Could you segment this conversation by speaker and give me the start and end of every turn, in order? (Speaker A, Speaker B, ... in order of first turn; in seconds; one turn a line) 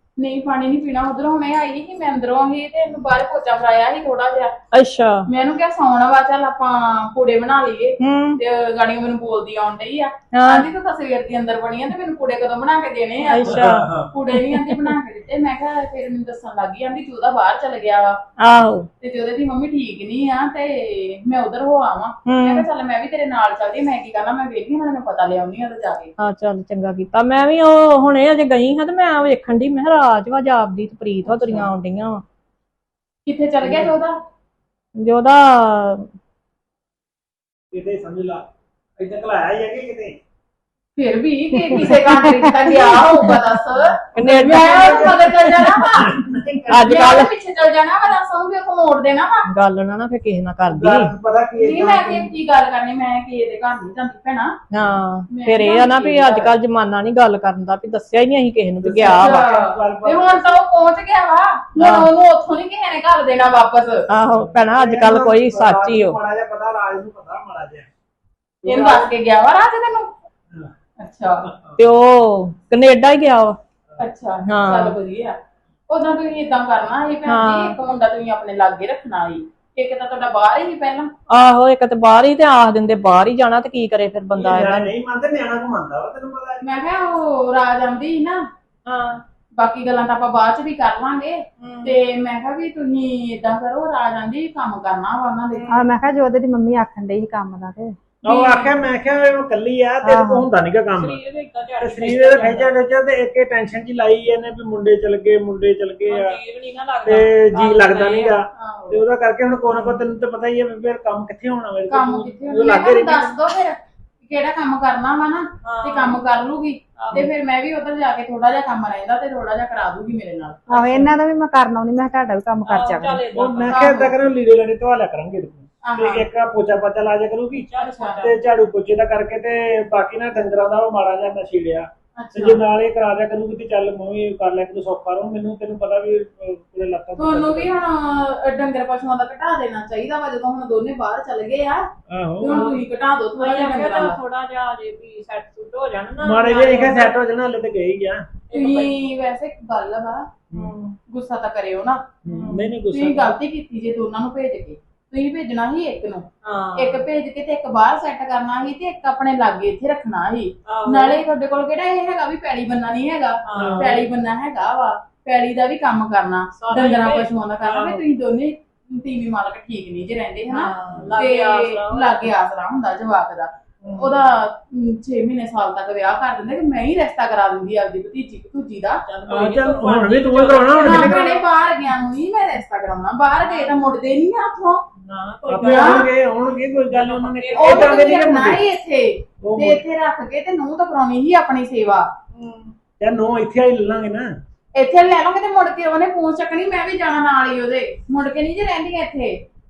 Speaker A: 0.2-4.5
Speaker B: 4.7-5.2
Speaker A: 5.3-18.2
Speaker B: 8.0-8.4
Speaker B: 10.3-10.7
Speaker B: 13.2-14.9
Speaker C: 13.4-14.1
Speaker B: 18.4-18.9
Speaker A: 19.0-26.1
Speaker B: 22.2-22.6
Speaker B: 26.2-32.2
Speaker A: 31.2-31.7
Speaker A: 33.2-34.1
Speaker B: 35.0-36.1
Speaker C: 37.7-38.4
Speaker C: 39.0-40.2
Speaker A: 41.0-46.1
Speaker D: 41.8-42.7
Speaker B: 44.1-45.8
Speaker C: 44.4-47.1
Speaker B: 46.7-47.3
Speaker A: 46.8-49.5
Speaker B: 49.5-51.1
Speaker C: 50.7-52.3
Speaker A: 51.6-54.5
Speaker B: 54.7-59.5
Speaker A: 55.3-56.5
Speaker C: 58.8-60.4
Speaker A: 59.1-64.0
Speaker B: 61.8-62.1
Speaker B: 64.1-66.2
Speaker C: 64.4-67.9
Speaker C: 68.6-69.1
Speaker A: 68.6-70.1
Speaker A: 71.0-71.5
Speaker C: 71.5-71.8
Speaker B: 71.8-73.6
Speaker A: 74.0-75.3
Speaker B: 74.5-75.0
Speaker A: 75.9-81.1
Speaker B: 77.3-77.8
Speaker B: 81.3-84.9
Speaker C: 84.3-86.7
Speaker A: 86.6-88.4
Speaker B: 88.8-89.2
Speaker A: 89.6-95.8
Speaker B: 91.6-92.0
Speaker D: 95.7-97.9
Speaker A: 98.2-98.7
Speaker C: 98.2-101.2
Speaker D: 100.0-100.5
Speaker B: 100.9-102.7
Speaker C: 101.8-106.4
Speaker B: 106.0-108.4
Speaker C: 107.0-113.3
Speaker A: 108.5-109.0
Speaker A: 111.9-113.7
Speaker A: 114.3-121.1
Speaker B: 115.6-116.2
Speaker B: 117.0-117.3
Speaker D: 120.7-123.2
Speaker B: 122.7-123.8
Speaker C: 123.3-137.7
Speaker A: 123.7-124.2
Speaker A: 125.8-126.2
Speaker B: 127.5-128.3
Speaker A: 127.8-128.2
Speaker A: 132.2-132.6
Speaker A: 137.2-141.8
Speaker C: 142.1-142.7
Speaker A: 142.4-144.2
Speaker B: 142.5-142.8
Speaker B: 143.4-147.2
Speaker C: 146.2-148.2
Speaker B: 148.5-149.0
Speaker A: 148.5-150.2
Speaker B: 150.5-151.0
Speaker A: 151.1-152.0
Speaker C: 152.2-153.3
Speaker B: 152.3-152.7
Speaker A: 152.9-179.0
Speaker B: 156.4-157.0
Speaker B: 160.7-161.2
Speaker B: 163.4-164.0
Speaker C: 163.5-163.9
Speaker B: 166.6-168.0
Speaker B: 170.5-172.3
Speaker B: 173.8-174.3
Speaker B: 179.1-181.4
Speaker C: 179.3-181.3
Speaker A: 180.8-184.8
Speaker B: 183.4-183.8
Speaker B: 185.0-186.1
Speaker C: 185.5-188.6
Speaker A: 185.7-186.1
Speaker B: 186.9-188.2
Speaker A: 187.6-192.1
Speaker C: 189.4-189.8
Speaker B: 192.3-192.7
Speaker C: 193.0-194.3
Speaker A: 194.8-199.4